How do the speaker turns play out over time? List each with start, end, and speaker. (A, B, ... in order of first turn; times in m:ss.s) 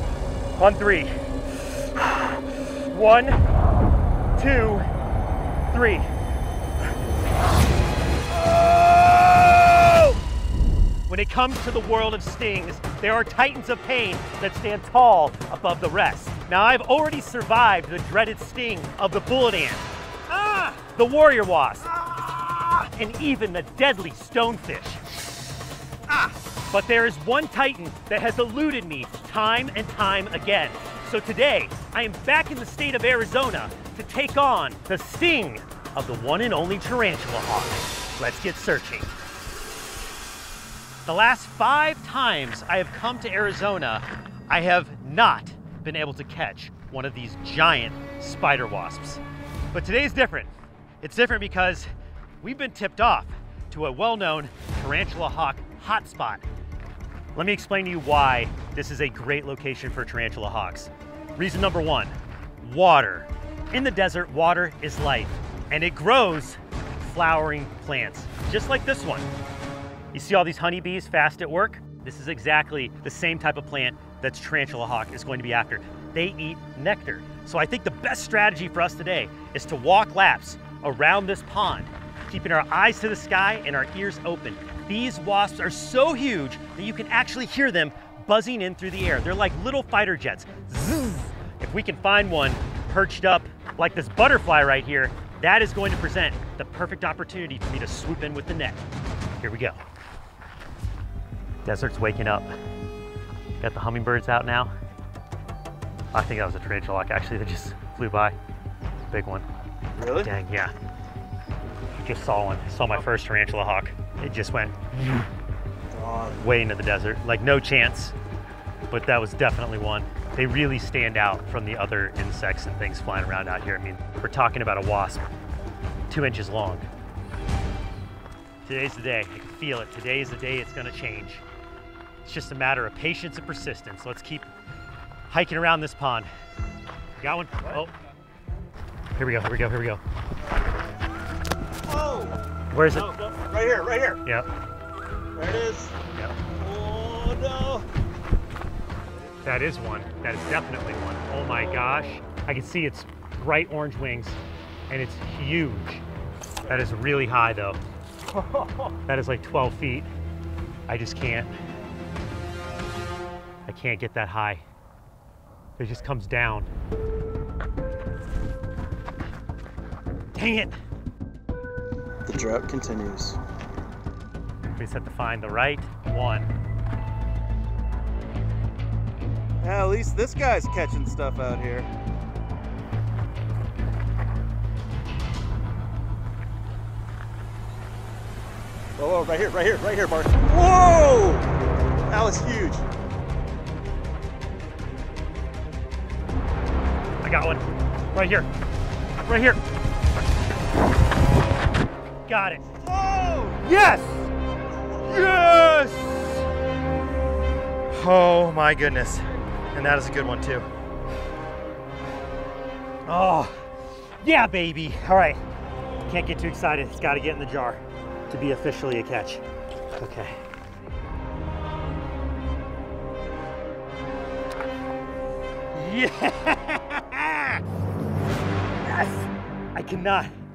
0:00.6-0:01.1 A
0:02.0-0:03.4 A
0:04.4-0:04.9 A
0:05.7-0:06.1 A
0:08.3-0:10.2 A
0:11.1-0:25.0 A
0:26.2-0:39.1 A
0:41.0-0:49.2 A
0:49.7-0:51.9 A
0:52.4-0:56.4 A
0:57.3-1:09.3 A
1:10.1-1:38.8 A
1:39.4-1:39.8 A
1:41.6-1:42.5 A
1:43.6-1:44.7 A
1:46.1-1:48.3 A
1:49.1-1:49.4 A
1:50.0-1:50.3 B
1:50.1-1:50.7 A
1:52.0-1:55.3 A
1:56.0-1:56.4 B
1:56.2-1:58.2 A
1:58.9-2:05.3 A
2:06.1-2:06.9 A
2:08.6-2:11.4 A
2:12.2-2:14.5 A
2:15.3-2:16.3 A
2:17.2-2:17.9 A
2:19.2-2:20.0 A
2:21.9-2:22.4 B
2:22.7-2:23.1 A
2:23.0-2:24.2 B
2:25.3-2:25.9 B
2:26.5-2:27.9 B
2:29.4-2:34.4 A
2:34.9-2:36.0 A
2:36.6-2:37.8 A
2:38.8-2:40.1 A
2:40.9-2:41.5 A
2:43.7-2:44.6 A
2:45.8-2:46.7 A
2:50.3-2:50.8 A
2:52.2-2:53.4 B
2:54.8-2:56.5 A
2:59.6-3:01.9 B
3:09.0-3:11.5 B
3:12.1-3:12.8 B
3:17.2-3:18.5 A
3:19.2-3:19.6 A
3:22.3-3:22.8 A
3:22.8-3:23.6 B
3:23.4-3:24.3 A
3:24.9-3:26.5 A
3:27.9-3:30.7 A
3:33.1-3:33.6 A
3:34.2-3:35.4 A
3:36.1-3:39.4 A
3:40.0-3:40.4 A
3:45.7-3:47.6 A
3:48.8-3:50.3 A